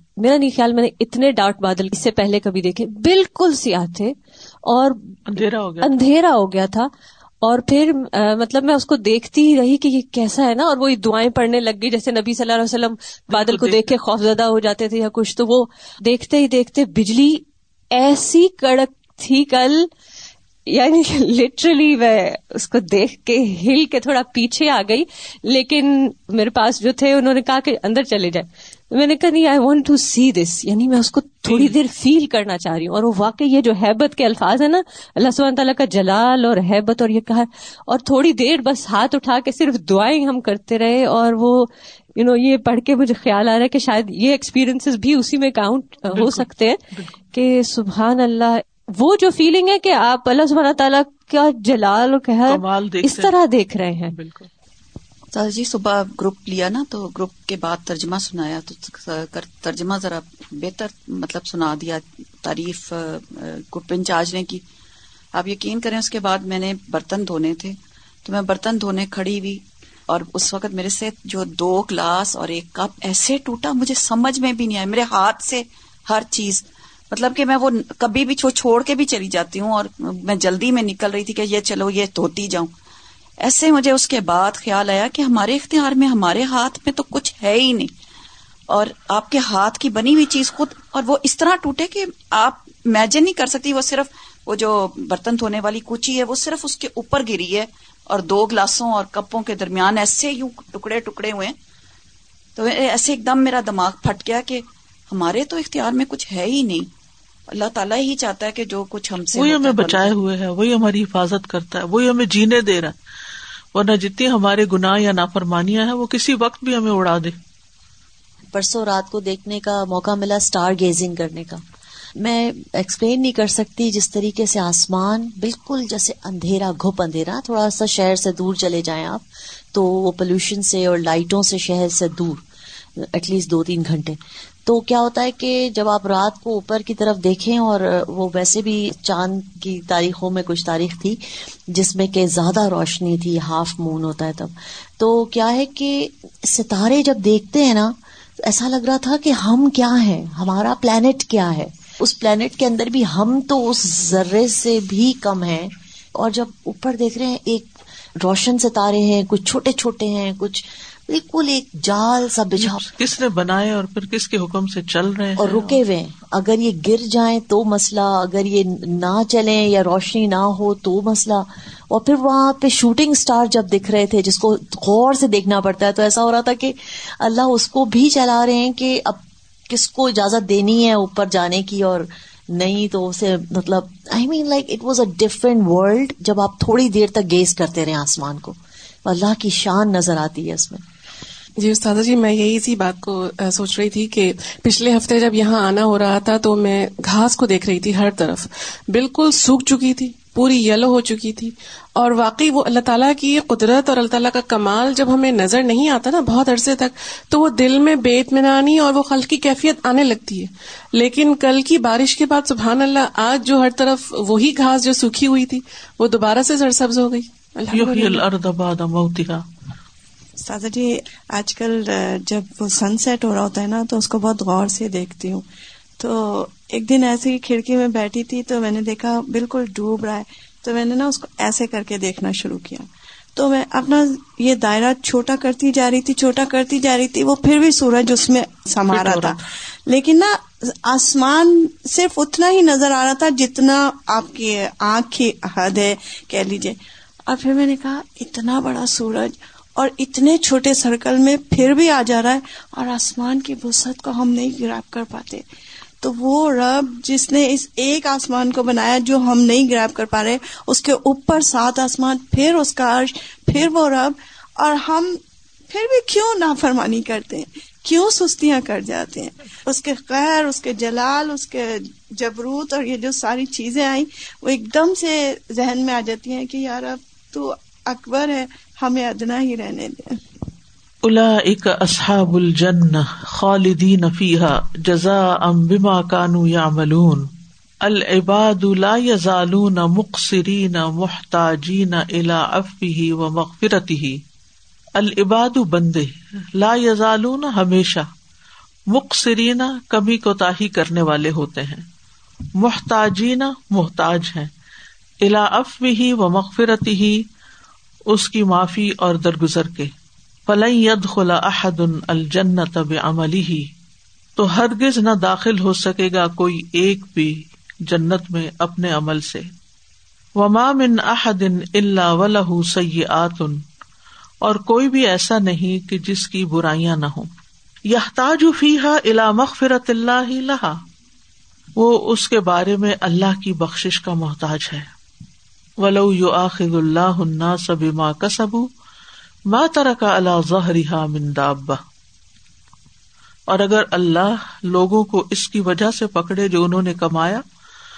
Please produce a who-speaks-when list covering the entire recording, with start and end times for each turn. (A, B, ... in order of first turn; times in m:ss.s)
0:00.2-0:05.2 A
0:05.3-0:06.0 B
0:05.8-0:06.9 A
0:07.4-0:19.9 A
0:13.3-0:13.9 B
0:20.7-0:46.8 A
0:31.5-0:31.7 B
0:46.1-0:47.2 B
0:47.3-0:54.2 A
0:52.5-0:53.4 B
0:54.1-0:54.5 B
0:55.3-1:04.6 C
1:05.3-1:22.7 C
1:23.4-1:27.9 C
1:28.7-1:41.6 C
1:42.6-1:46.9 C
1:47.5-1:50.1 C
1:49.4-1:53.0 B
1:53.8-1:57.4 B
1:58.5-2:01.6 D
2:02.2-2:12.4 D
2:13.0-2:42.8 D
2:42.6-2:45.8 B
2:45.4-3:10.8 D
3:11.6-3:38.2 E
3:37.7-3:39.4 B
3:40.4-3:45.4 F
3:46.0-4:06.8 F
3:58.9-3:59.4 B
4:07.3-4:15.4 F
4:16.0-4:40.2 F
4:41.0-4:47.3 B
4:47.8-4:54.2 B
4:55.0-4:58.1 B
4:58.9-5:01.8 B
5:02.6-5:04.5 B
5:05.2-5:07.2 B
5:08.1-5:09.9 B
5:10.5-5:13.7 B
5:14.4-5:17.4 B
5:17.9-5:19.5 B
5:20.4-5:23.6 B
5:24.4-5:27.3 B
5:27.9-5:30.8 B
5:31.8-5:34.9 B
5:35.8-5:38.7 B
5:39.5-5:41.8 B
5:43.5-5:47.4 B